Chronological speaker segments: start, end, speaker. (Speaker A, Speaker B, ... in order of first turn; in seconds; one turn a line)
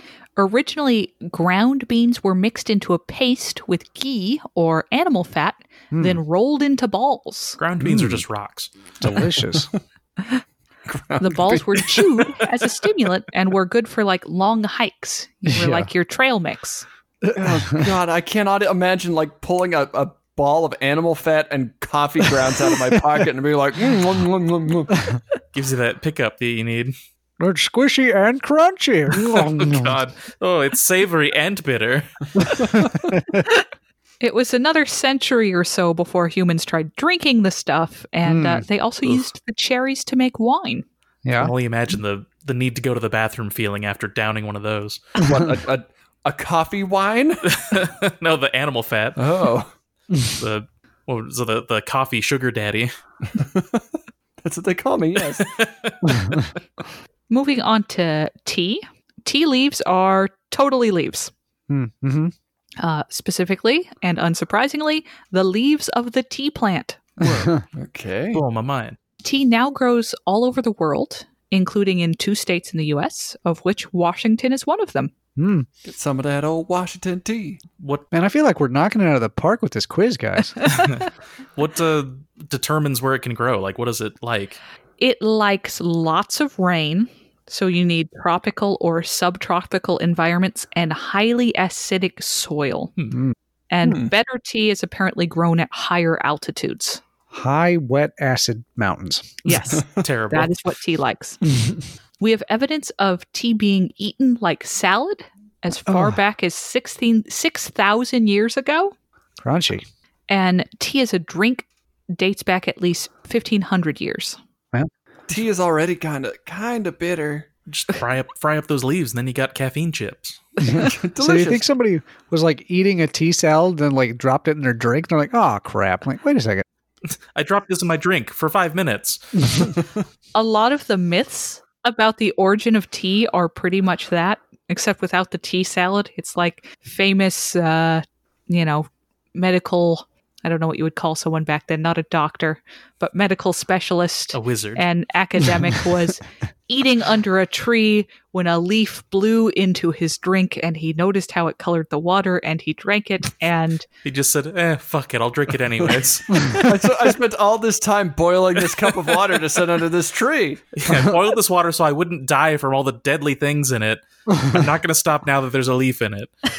Speaker A: 0.4-7.6
Speaker B: 5.9-6.2
Speaker C: 7.6-8.7
Speaker B: 7.8-8.2
Speaker B: 9.0-9.7
Speaker D: 9.1-9.8
Speaker D: 10.8-12.4
Speaker A: 11.2-16.9
Speaker B: 15.4-15.9
Speaker B: 17.2-17.9
Speaker D: 17.3-25.1
Speaker C: 25.5-26.9
Speaker B: 27.4-30.0
Speaker C: 29.1-32.8
Speaker B: 32.6-33.4
Speaker A: 34.2-40.8
Speaker B: 38.2-38.6
Speaker B: 41.2-41.5
Speaker C: 41.4-45.1
Speaker D: 45.2-47.6
Speaker B: 45.2-45.5
Speaker C: 47.5-49.2
Speaker D: 49.1-49.7
Speaker C: 50.4-52.9
Speaker D: 53.3-53.9
Speaker D: 54.4-55.5
Speaker C: 55.5-56.3
Speaker B: 56.0-56.5
Speaker A: 57.3-61.3
Speaker B: 61.7-62.3
Speaker A: 62.8-67.0
Speaker B: 67.2-67.6
Speaker D: 67.2-68.4
Speaker C: 68.3-69.0
Speaker A: 69.2-75.1
Speaker B: 75.3-75.7
Speaker D: 75.8-77.6
Speaker C: 77.8-78.0
Speaker B: 78.1-80.7
Speaker C: 80.6-84.6
Speaker A: 85.0-92.9
Speaker A: 93.7-97.0
Speaker D: 93.8-94.1
Speaker B: 97.3-99.4
Speaker A: 99.4-101.4
Speaker C: 100.0-100.5
Speaker A: 102.2-108.9
Speaker B: 105.9-106.2
Speaker B: 109.4-109.9
Speaker A: 110.3-114.4
Speaker D: 115.3-117.5
Speaker C: 117.7-120.6
Speaker D: 120.6-121.7
Speaker B: 120.7-126.6
Speaker C: 127.3-129.7
Speaker A: 130.3-153.8
Speaker C: 144.3-144.8
Speaker C: 154.0-156.6
Speaker B: 156.3-156.6
Speaker D: 156.6-160.7
Speaker C: 160.7-166.3
Speaker B: 160.9-161.1
Speaker B: 164.3-164.6